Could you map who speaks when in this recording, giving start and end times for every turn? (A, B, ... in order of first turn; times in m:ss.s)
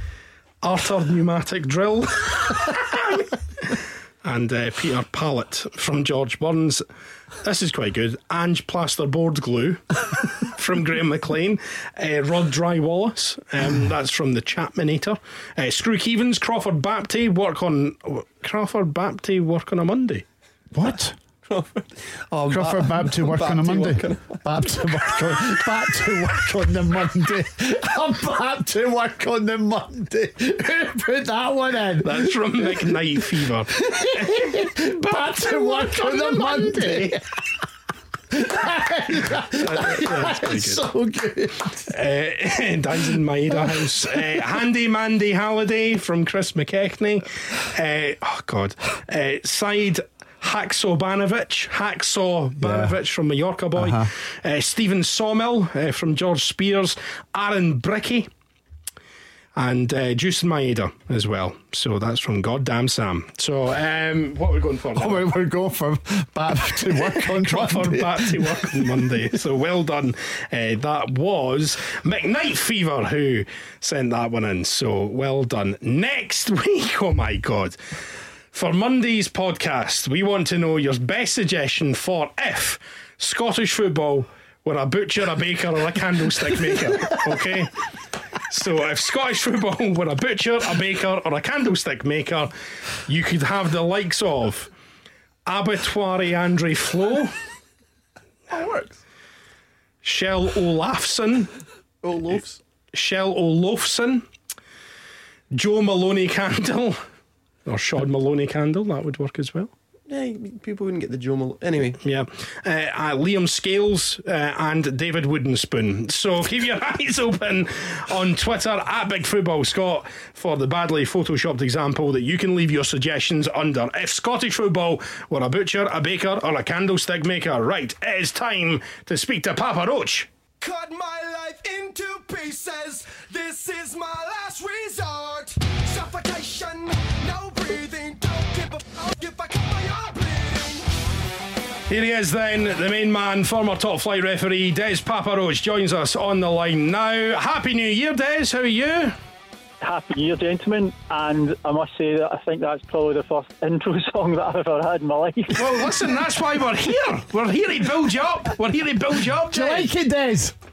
0:00.6-0:06.8 A
0:07.4-0:20.2 A
0:20.7-0:21.2 B
0:21.4-0:24.4 C
0:22.5-0:32.9 B
0:32.0-0:37.2 A
0:33.7-0:37.2 B
0:38.3-0:41.9 B
0:39.3-0:40.8 A
0:41.8-0:58.3 A
0:52.6-0:52.9 B
0:53.8-0:54.1 B
0:59.5-1:05.2 A
1:05.0-1:08.9 B
1:07.0-1:17.8 A
1:18.5-1:27.7 A
1:28.5-1:32.5 A
1:33.0-1:34.7 A
1:35.4-1:37.3 A
1:38.5-1:39.0 C
1:40.0-1:41.5 A
1:42.0-1:42.6 C
1:42.9-1:44.2 A
1:45.5-1:47.0 A
1:47.6-1:49.7 A
1:50.1-1:52.0 C
1:52.0-2:10.3 A
2:10.6-2:20.9 D
2:21.9-2:29.2 A
2:29.8-2:35.7 E
2:35.5-2:39.9 A
2:39.5-2:40.5 B